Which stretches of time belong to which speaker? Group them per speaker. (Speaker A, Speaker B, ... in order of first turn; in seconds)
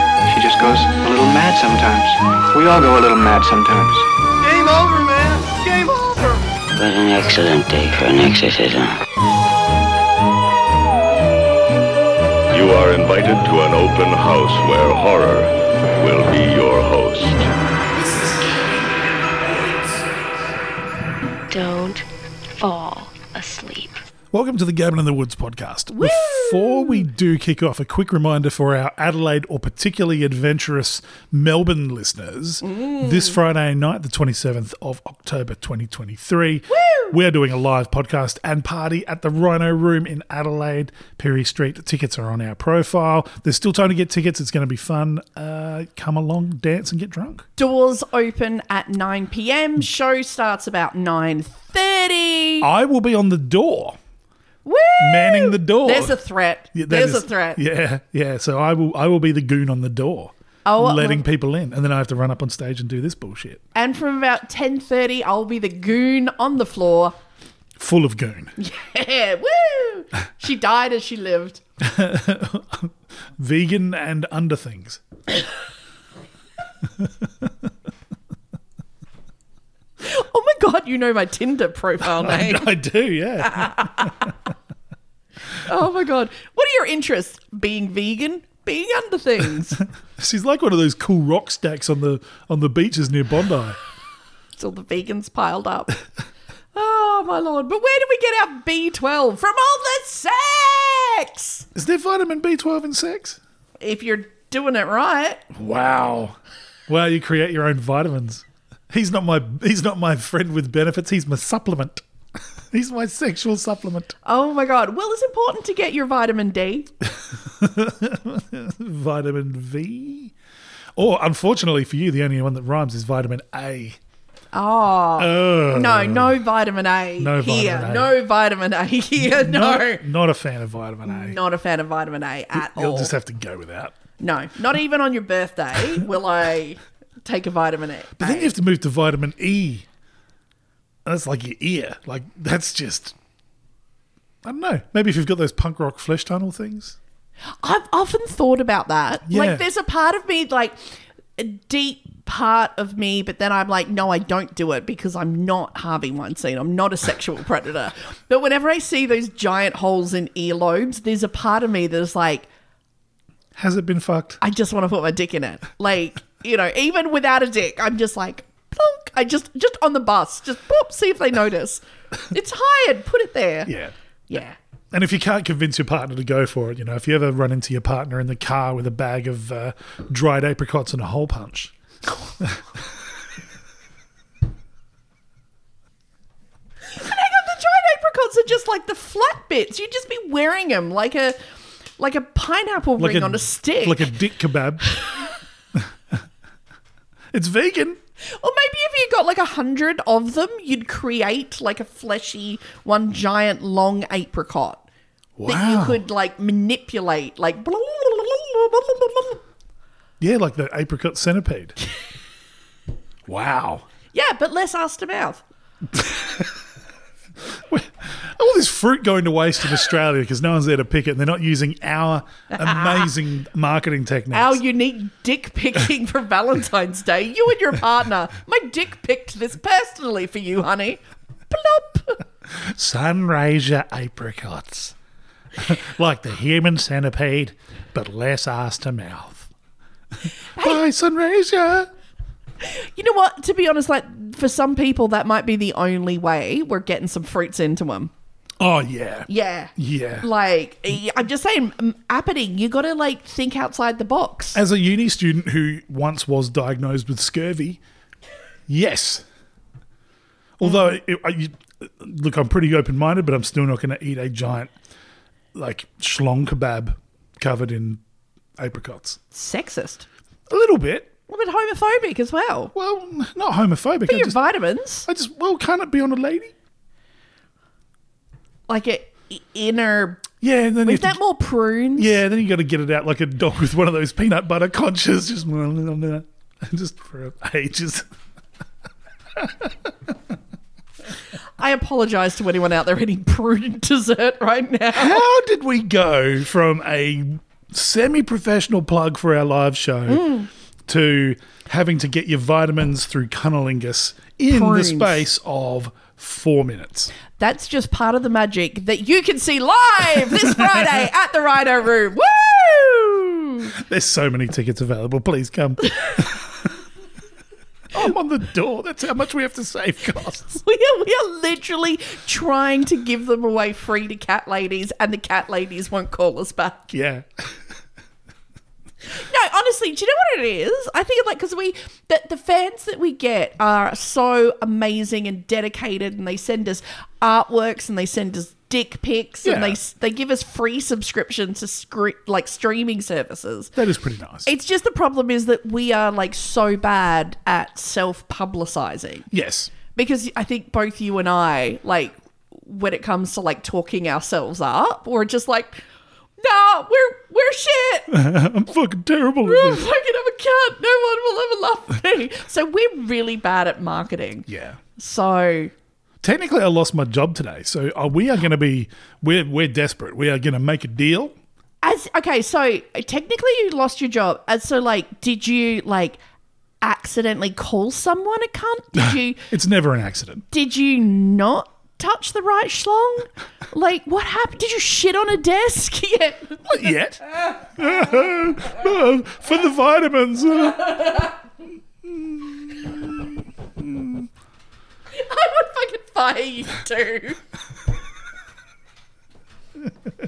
Speaker A: 0.3-4.1
Speaker B: 4.5-6.4
Speaker C: 6.8-9.0
Speaker D: 12.5-17.5
Speaker E: 18.0-20.1, 24.3-47.5, 52.6-54.0, 55.0-56.2, 56.7-63.6, 67.8-68.5, 71.8-75.0, 77.0-77.5, 82.1-84.3, 90.2-93.8, 101.8-103.4, 105.5-106.4, 106.9-112.0, 112.7-114.1, 117.0-120.3, 121.0-124.0, 125.2-126.4, 127.2-128.2, 129.2-131.4, 132.5-133.9, 138.2-139.9, 141.1-143.2, 144.4-147.0, 149.3-149.7, 163.6-164.4, 173.7-173.9, 174.9-181.7, 182.4-182.6, 193.0-195.0, 195.8-196.2, 197.3-198.0, 205.4-206.0, 210.2-211.8, 213.3-213.9, 215.9-216.5, 217.7-224.6, 232.5-234.9, 235.6-239.5, 240.6-241.9, 248.6-250.3, 254.5-257.8, 258.7-259.2, 260.6-264.7, 265.5-268.0, 268.6-269.2, 270.5-271.1, 272.7-274.4, 275.1-276.5, 280.4-281.2, 282.0-288.1, 289.4-290.1, 294.9-307.1, 310.3-310.9, 313.8-316.4, 317.9-320.6, 326.9-327.5, 339.4-339.8, 343.8-344.5, 349.3-349.7, 358.1-359.8, 364.5-364.8, 366.2-371.4, 378.9-380.5, 386.7-391.3, 392.1-394.3
Speaker F: 21.5-22.1, 22.6-24.1
Speaker G: 25.9-27.1, 32.6-33.4, 36.7-37.1, 47.6-52.7, 54.6-57.6, 60.7-61.2, 63.8-67.2, 68.6-71.6, 80.0-82.7, 83.4-84.3, 85.6-89.8, 94.6-96.0, 96.7-101.7, 103.8-105.4, 114.2-116.9, 124.5-130.1, 131.1-133.1, 134.2-138.5, 147.6-150.8, 151.4-162.5, 164.4-173.7, 174.3-174.6, 186.9-191.4, 192.0-194.1, 198.2-204.8, 205.5-209.4, 214.1-215.4, 222.5-223.1, 224.3-231.0, 231.5-232.2, 240.6-240.8, 242.6-248.1, 249.3-254.6, 269.3-270.1, 271.3-272.7, 274.1-275.1, 278.7-280.3, 280.8-282.2, 291.6-295.2, 300.1-300.5, 304.5-305.2, 307.4-313.8, 320.5-326.9, 329.1-343.8, 344.5-349.3, 349.9-355.9, 356.4-358.1, 359.4-365.7, 371.8-376.2, 376.8-379.4, 380.5-386.6, 395.1-397.4